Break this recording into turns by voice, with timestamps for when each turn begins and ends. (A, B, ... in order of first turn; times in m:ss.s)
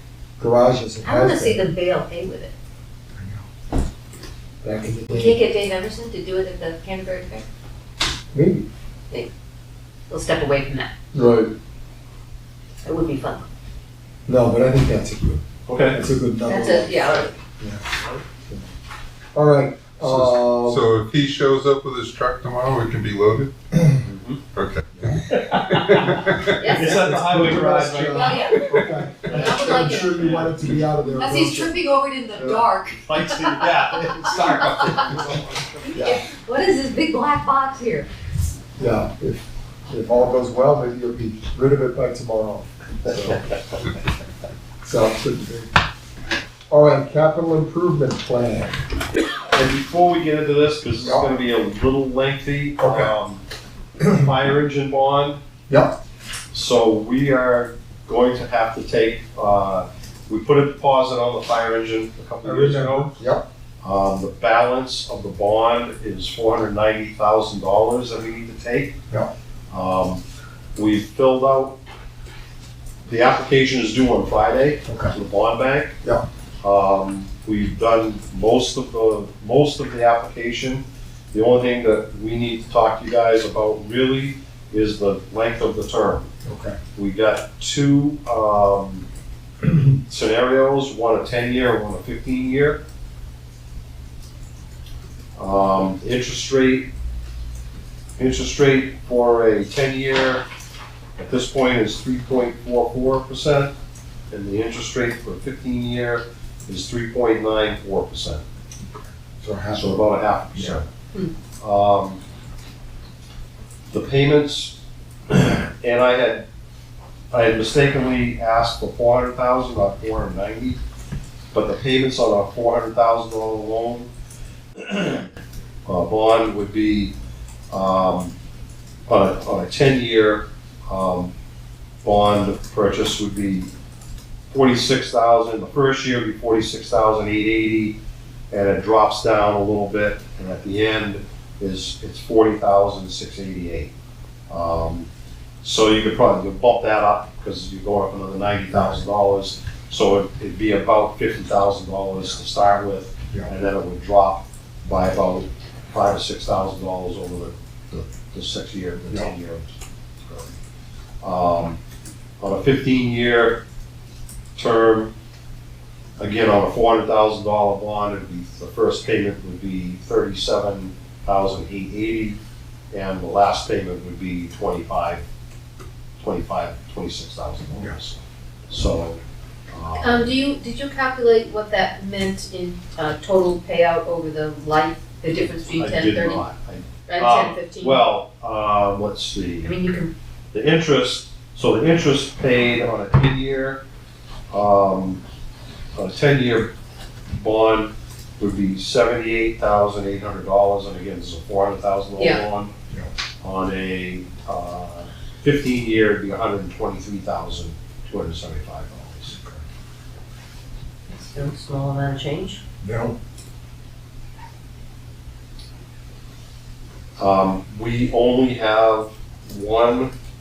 0:00.4-0:01.6 A
0:01.0-0:02.5 B
0:03.1-0:03.5 A
0:04.6-0:05.4 A
0:05.1-0:07.4 B
0:08.3-0:08.6 A
0:10.1-0:10.9 B
0:11.1-0:11.5 A
0:12.8-0:13.4 B
0:14.2-0:17.9 A
0:15.7-0:16.0 C
0:16.4-0:17.3 B
0:19.3-0:20.9 A
0:20.0-0:23.5 D
0:23.8-0:24.0 A
0:24.0-0:24.4 C
0:24.5-0:26.8 D
0:24.9-0:28.5 C
0:26.6-0:27.0 B
0:26.8-0:31.8 A
0:28.0-0:28.7 B
0:28.7-0:30.5 D
0:29.2-0:30.5 C
0:29.3-0:30.3 B
0:31.0-0:35.2 B
0:32.3-0:32.7 A
0:33.0-0:35.9 C
0:35.9-0:38.1 B
0:35.9-0:36.2 A
0:38.8-0:43.4 A
0:44.8-0:45.7 A
0:46.7-0:48.8 A
0:49.5-0:53.4 C
0:51.0-0:51.3 A
0:52.8-0:53.1 A
0:54.0-0:54.3 A
0:54.1-0:55.4 C
0:55.7-0:56.0 A
0:56.5-1:03.1 C
1:02.4-1:03.4 A
1:03.8-1:08.9 C
1:09.7-1:10.2 C
1:10.8-1:11.8 C
1:13.0-1:16.0 C
1:14.9-1:15.1 A
1:16.6-1:26.3 C
1:26.4-1:26.8 A
1:26.9-1:29.0 C
1:29.6-1:30.0 A
1:30.0-1:32.8 C
1:35.4-1:36.9 C
1:38.2-1:40.4 C
1:41.2-1:43.7 C
1:44.3-1:48.4 C
1:49.4-1:50.8 A
1:49.7-1:50.8 C
1:51.6-1:52.2 C
1:53.9-1:54.8 C
1:55.3-1:56.4 C
1:57.3-2:00.8 C
2:01.5-2:04.1 C
2:04.8-2:05.2 C
2:05.9-2:07.1 C
2:07.7-2:08.3 C
2:09.1-2:11.3 C
2:12.0-2:13.7 C
2:14.5-2:18.0 C
2:18.5-2:23.9 C
2:24.5-2:25.1 C
2:25.6-2:40.5 C
2:28.7-2:29.0 A
2:41.2-2:41.8 C
2:42.4-2:43.6 C
2:44.6-2:45.1 C
2:46.2-2:52.4 C
2:52.9-2:55.2 C
2:56.2-2:59.2 C
2:59.7-3:00.3 C
3:00.0-3:06.4 B
3:05.8-3:09.7 C
3:07.1-3:08.0 B
3:09.6-3:10.1 B
3:10.5-3:13.8 C
3:14.5-3:15.2 C
3:16.0-3:16.7 C
3:17.3-3:22.7 C
3:23.4-3:29.4 C
3:29.3-3:29.6 A
3:31.1-3:32.6 B
3:32.8-3:33.2 A
3:37.2-3:40.1 C